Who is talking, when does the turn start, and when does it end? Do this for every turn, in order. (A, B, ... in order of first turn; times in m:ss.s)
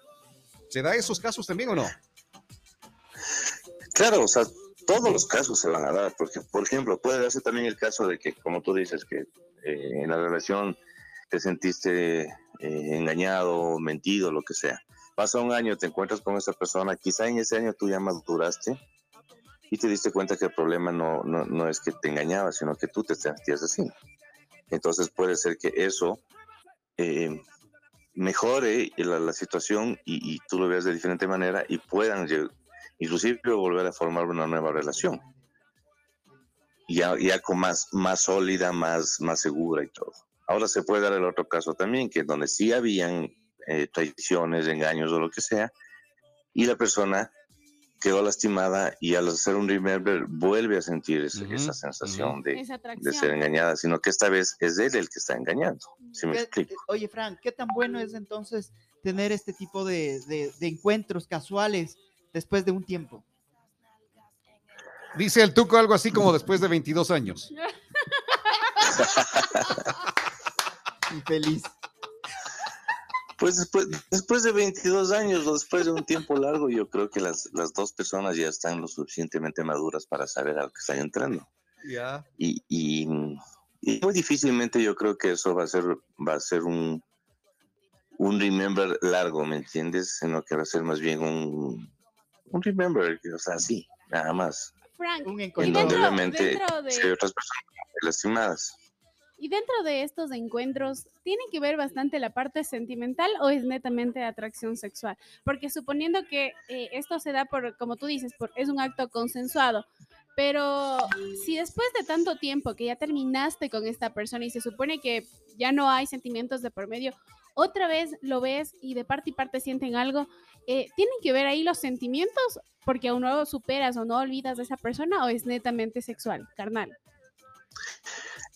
0:00.7-0:01.9 A
0:04.0-0:10.8 B
0:11.3-0:18.8 B
0:19.7-0:23.9 B
0:24.7-0:26.2 B
0:27.0-0:27.4 B
0:28.2-0:35.2 B
0:34.8-0:35.4 C
0:36.9-0:45.7 B
0:46.5-0:47.3 B
0:48.0-0:56.7 B
0:51.4-0:52.4 A
0:52.5-0:53.3 D
0:56.3-1:03.2 C
1:05.1-1:07.5 A
1:07.6-1:08.9 D
1:09.0-1:09.3 B
1:11.1-1:11.7 C
1:13.4-1:21.5 B
1:21.8-1:22.3 A
1:22.4-1:27.0 B
1:28.2-1:31.9 B
1:32.5-1:34.7 B
1:34.9-1:37.1 D
1:35.2-1:36.1 C
1:35.6-1:38.8 B
1:39.4-2:06.9 D